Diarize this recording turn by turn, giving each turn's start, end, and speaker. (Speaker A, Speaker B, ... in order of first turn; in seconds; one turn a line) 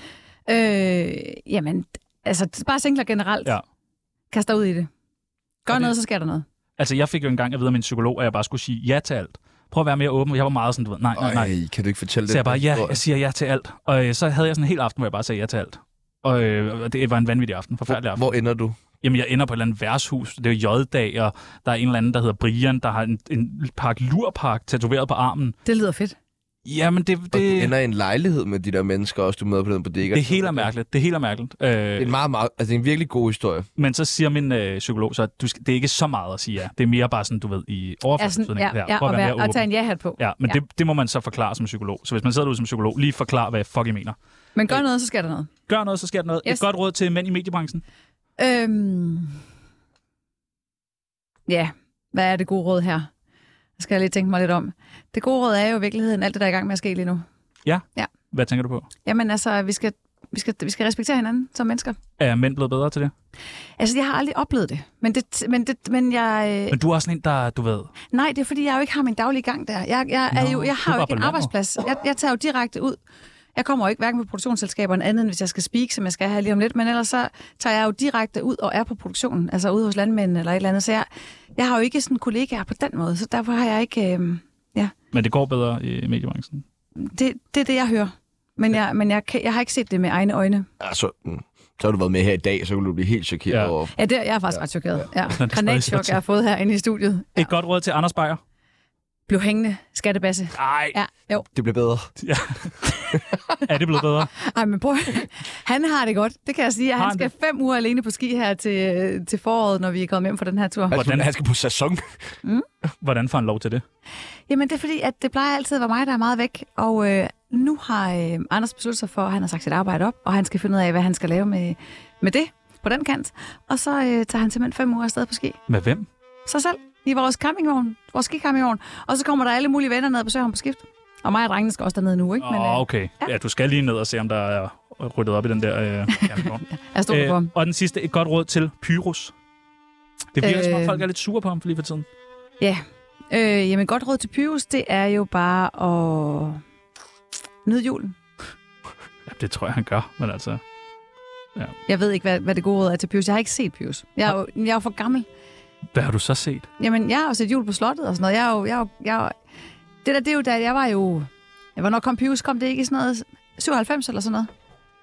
Speaker A: 0.5-3.5
Speaker A: 4.3-4.9
Speaker A: 5.6-6.4
Speaker B: 5.7-5.9
Speaker B: 6.8-11.5
Speaker C: 11.1-13.0
Speaker B: 12.3-18.3
Speaker C: 17.9-18.8
Speaker B: 19.0-25.6
Speaker A: 25.6-26.1
Speaker B: 26.6-27.7
Speaker C: 27.3-30.7
Speaker B: 30.1-32.1
Speaker C: 32.0-33.7
Speaker B: 33.8-39.6
Speaker A: 38.2-40.6
Speaker B: 40.2-44.1
Speaker A: 44.5-45.5
Speaker B: 45.7-47.8
Speaker A: 48.4-49.4
Speaker A: 51.5-53.1
Speaker A: 53.8-57.2
Speaker B: 57.6-58.9
Speaker A: 59.0-62.0
Speaker B: 62.2-63.1
Speaker A: 63.8-66.8
Speaker B: 66.7-67.9
Speaker A: 68.1-73.0
Speaker B: 70.3-71.5
Speaker A: 73.5-84.9
Speaker B: 85.1-86.6
Speaker A: 87.0-90.7
Speaker C: 90.8-93.9
Speaker B: 93.5-93.7
Speaker A: 93.9-97.5
Speaker B: 95.3-96.2
Speaker B: 97.3-98.4
Speaker A: 99.3-101.5
Speaker B: 100.5-101.0
Speaker C: 101.5-102.1
Speaker B: 102.2-102.7
Speaker B: 103.6-104.3
Speaker A: 104.3-111.0
Speaker B: 107.0-107.3
Speaker C: 110.9-112.0
Speaker B: 110.9-111.3
Speaker B: 113.0-113.8
Speaker A: 114.5-125.6
Speaker B: 125.7-126.1
Speaker A: 126.5-133.3
Speaker B: 132.4-139.3
Speaker A: 136.1-137.5
Speaker B: 140.3-142.1
Speaker A: 140.4-141.0
Speaker A: 142.6-146.6
Speaker A: 147.6-148.1
Speaker B: 149.2-150.6
Speaker A: 151.9-155.2
Speaker B: 155.9-156.7
Speaker A: 156.8-159.3
Speaker A: 160.0-164.5